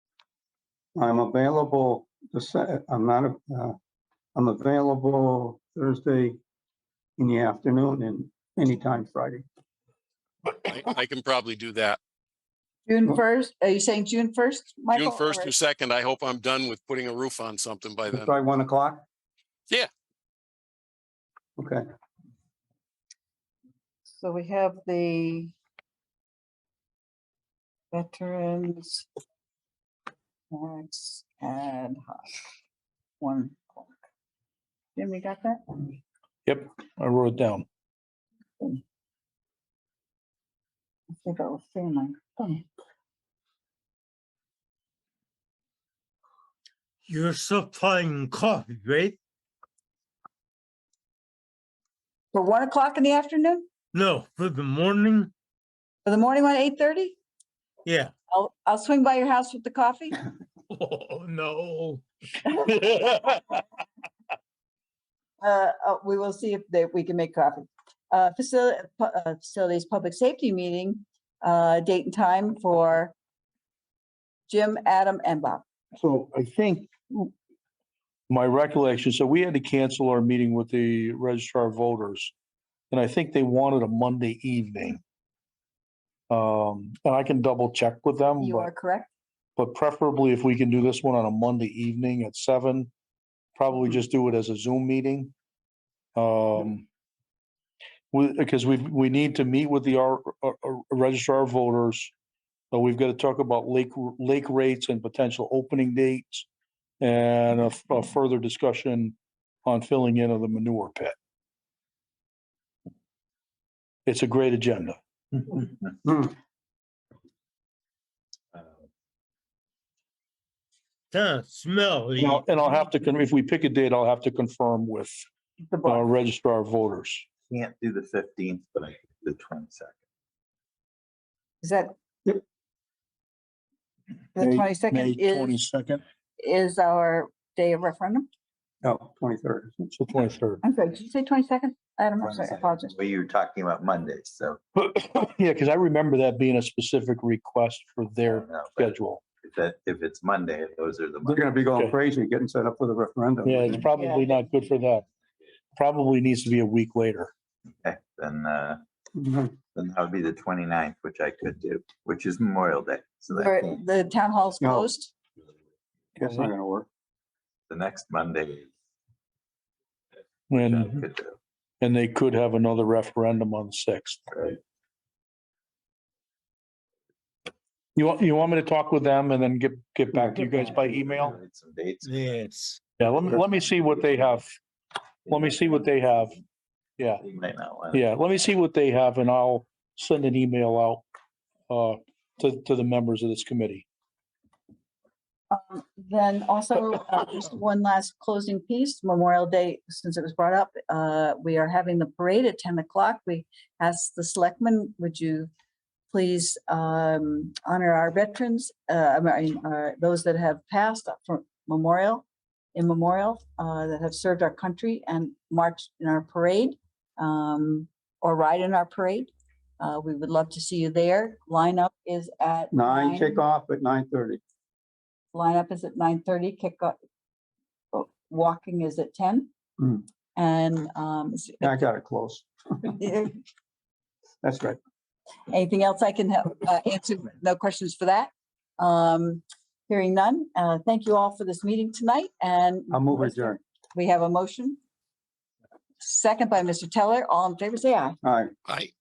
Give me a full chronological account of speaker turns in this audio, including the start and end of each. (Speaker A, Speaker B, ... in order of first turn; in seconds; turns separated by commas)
Speaker A: 0.9-3.8, Speaker A: 4.3-6.4, Speaker A: 7.2-9.4, Speaker B: 10.5-12.0, Speaker C: 12.9-15.5, Speaker B: 14.9-18.3, Speaker A: 18.1-19.0, Speaker A: 21.6-21.8, Speaker C: 24.2-25.5, Speaker C: 27.9-29.1, Speaker C: 30.5-32.2, Speaker C: 33.2-33.9, Speaker C: 34.9-35.8, Speaker D: 36.5-37.6, Speaker C: 41.2-42.6, Speaker E: 47.0-49.1, Speaker C: 52.3-53.6, Speaker E: 53.9-55.3, Speaker C: 56.0-57.1, Speaker E: 57.9-58.1, Speaker C: 58.3-60.2, Speaker E: 60.7-62.0, Speaker D: 62.7-63.4, Speaker C: 65.4-73.1, Speaker C: 74.5-75.6, Speaker D: 76.0-77.3, Speaker D: 78.3-82.3, Speaker D: 82.9-85.0, Speaker D: 86.3-88.7, Speaker C: 88.4-89.1, Speaker D: 89.6-92.9, Speaker D: 93.6-95.3, Speaker D: 96.2-96.8, Speaker D: 98.1-102.1, Speaker D: 102.7-106.5, Speaker D: 107.0-111.1, Speaker D: 114.0-115.0, Speaker A: 116.0-116.3, Speaker E: 121.1-122.6, Speaker D: 122.2-125.2, Speaker C: 125.7-126.0, Speaker D: 125.8-127.3, Speaker F: 127.5-129.9, Speaker C: 131.6-131.9, Speaker C: 134.3-135.6, Speaker D: 134.4-136.0, Speaker C: 136.4-138.3, Speaker A: 138.8-139.9, Speaker D: 139.9-140.6, Speaker C: 140.6-142.9, Speaker F: 142.2-144.6, Speaker D: 144.8-149.2, Speaker F: 148.3-151.4, Speaker D: 151.2-152.0, Speaker A: 151.3-153.8, Speaker D: 153.4-155.1, Speaker C: 153.9-154.3, Speaker D: 155.8-157.3, Speaker F: 157.8-158.8, Speaker A: 159.1-159.5, Speaker F: 159.7-163.8, Speaker C: 163.3-165.1, Speaker A: 164.6-164.9, Speaker A: 166.2-166.9, Speaker D: 166.2-166.5, Speaker F: 167.7-168.7, Speaker D: 170.5-171.0, Speaker F: 170.5-171.4, Speaker D: 171.8-174.4, Speaker D: 177.9-181.3, Speaker A: 180.1-180.5, Speaker F: 180.5-182.4, Speaker E: 182.0-182.8, Speaker D: 183.0-184.5, Speaker F: 183.2-184.2, Speaker F: 185.3-185.8, Speaker D: 185.3-186.3, Speaker F: 187.2-188.1, Speaker D: 187.9-191.0, Speaker D: 191.7-193.8, Speaker C: 195.5-205.5, Speaker C: 206.1-223.4, Speaker A: 222.7-224.4, Speaker C: 225.3-226.9, Speaker C: 227.9-229.5, Speaker C: 230.3-231.8, Speaker A: 231.6-232.9, Speaker C: 233.0-233.4, Speaker A: 234.4-234.8, Speaker C: 235.5-244.8, Speaker A: 242.9-243.6, Speaker C: 246.0-248.2, Speaker A: 248.2-248.5, Speaker B: 248.7-248.9